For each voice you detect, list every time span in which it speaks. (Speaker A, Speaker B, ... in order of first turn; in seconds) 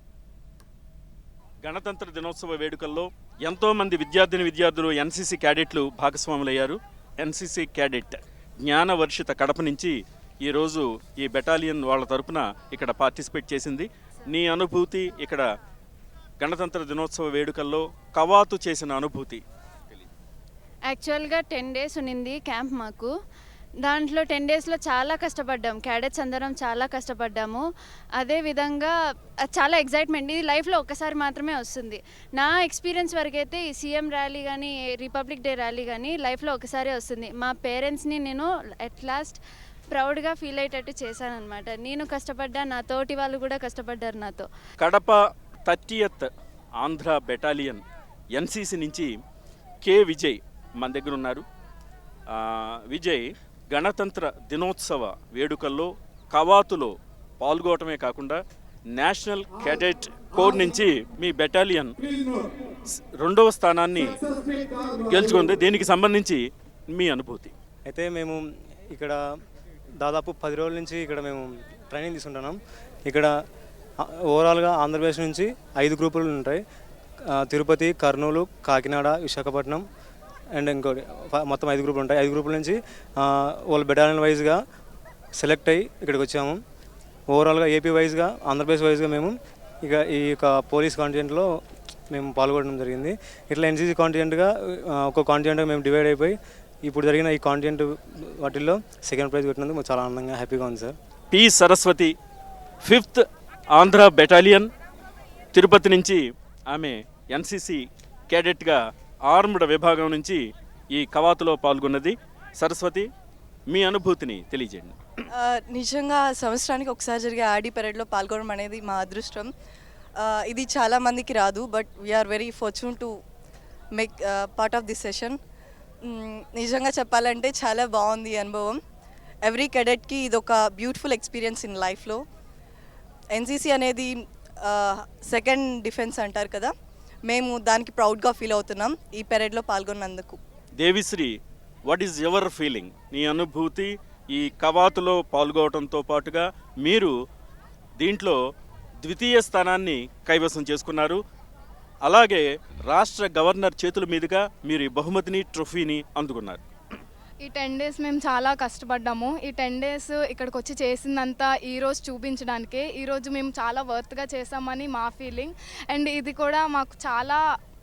Speaker A: 1.6-15.4, 16.4-19.4, 44.8-49.2, 49.8-51.4, 52.3-58.4, 58.9-62.4, 62.9-64.2, 64.9-67.5, 101.3-102.1, 102.8-104.7, 105.5-113.1, 113.7-115.0, 140.8-141.3, 141.8-147.1, 148.0-148.4, 149.0-151.2, 152.0-156.6
Speaker B: 20.9-23.1, 23.8-27.6, 28.2-28.9, 29.4-39.4, 39.9-44.5
Speaker C: 67.9-68.4, 68.9-69.2, 70.0-73.3, 74.1-76.6, 77.3-79.8, 80.5-84.6, 85.4-86.6, 87.3-91.5, 92.1-100.9
Speaker D: 115.3-119.5, 120.2-123.1, 124.0-125.4, 126.1-128.8, 129.4-132.2, 133.3-134.1, 134.6-136.7, 137.2-140.4
Speaker E: 157.4-167.4